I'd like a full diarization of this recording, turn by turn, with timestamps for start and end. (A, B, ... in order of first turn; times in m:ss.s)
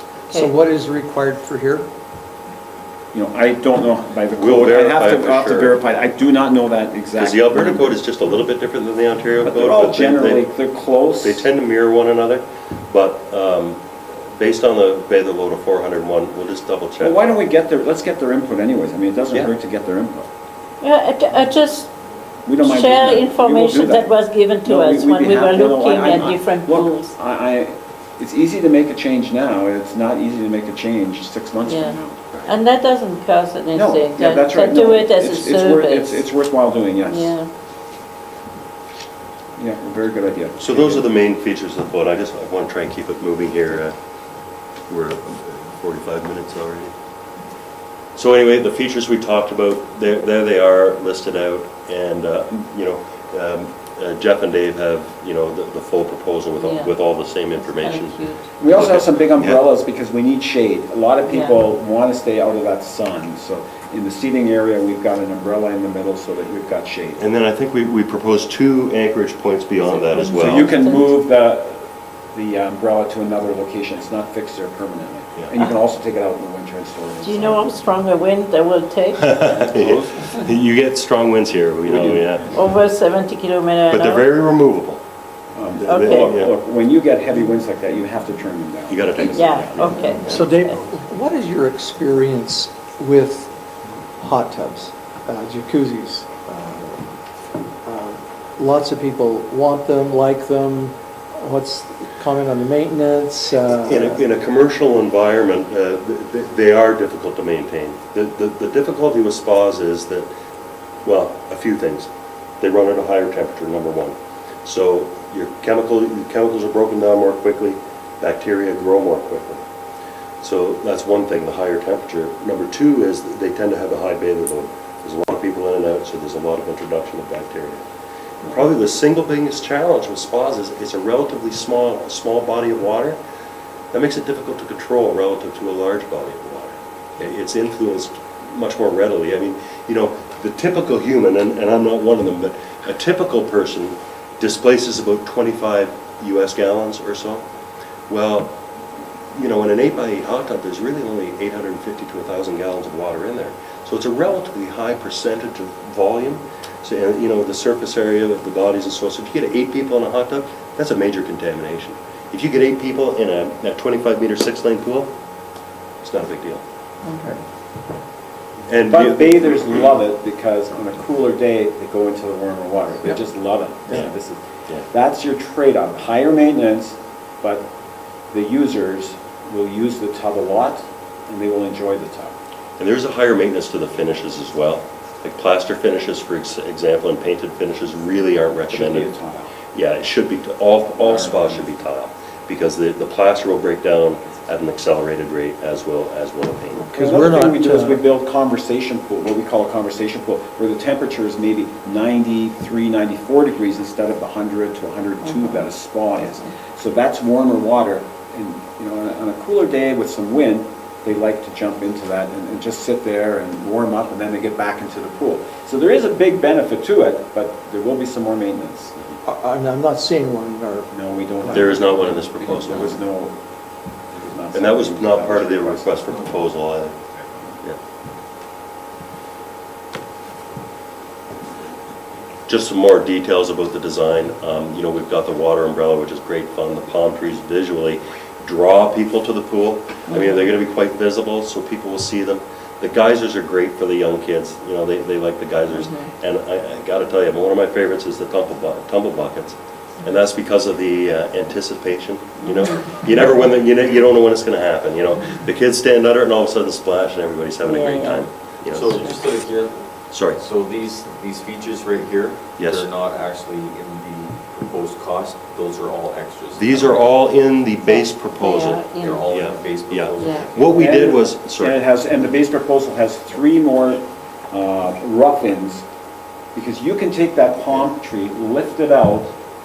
0:00.3-0:01.9 A
0:03.1-0:08.0 B
0:04.4-0:05.8 C
0:07.2-0:10.5 C
0:09.4-0:11.5 B
0:11.2-0:13.8 C
0:14.4-0:17.2 C
0:17.0-0:20.3 B
0:20.8-0:21.9 D
0:22.4-0:32.2 B
0:22.6-0:27.1 D
0:31.6-0:36.2 D
0:33.7-0:37.4 B
0:37.1-0:37.5 D
0:39.6-0:41.1 B
0:40.6-0:43.9 C
0:44.9-0:46.9 C
0:48.2-0:59.6 C
0:56.6-0:56.9 D
0:57.5-0:58.5 D
0:58.6-1:07.3 B
1:01.2-1:01.6 D
1:07.2-1:10.7 C
1:10.0-1:11.2 D
1:10.3-1:17.8 B
1:17.2-1:19.5 D
1:19.2-1:22.5 C
1:21.8-1:22.3 B
1:22.5-1:24.3 D
1:23.9-1:25.0 C
1:25.5-1:30.1 B
1:25.8-1:26.5 C
1:25.8-1:26.4 D
1:28.9-1:30.4 C
1:29.2-1:30.8 D
1:30.2-1:33.5 A
1:34.2-1:37.1 A
1:37.8-1:44.2 A
1:43.8-1:50.3 C
1:51.0-1:52.1 C
1:52.6-1:59.6 C
2:00.4-2:07.8 C
2:08.4-2:13.2 C
2:13.9-2:27.4 C
2:28.1-2:28.6 C
2:29.3-2:45.1 C
2:46.0-2:46.6 C
2:47.0-2:47.4 A
2:48.7-2:49.9 C
2:48.9-2:57.7 B
2:58.3-3:02.3 B
3:02.8-3:09.1 C
3:08.7-3:09.5 B
3:09.7-3:16.9 C
3:11.0-3:11.6 B
3:16.8-3:18.0 A
3:16.9-3:39.0 B
3:39.2-3:40.9 A
3:40.9-3:43.4 B
3:41.4-3:43.0 C
3:44.1-3:46.4 B
3:44.5-3:46.9 C
3:52.5-4:19.2 C
4:05.7-4:06.0 D
4:17.6-4:18.2 D
4:18.7-4:27.1 E
4:20.1-4:20.4 C
4:22.6-4:22.9 C
4:26.6-4:31.8 C
4:27.8-4:29.2 D
4:29.0-4:30.7 E
4:30.7-4:35.8 B
4:36.5-4:39.3 B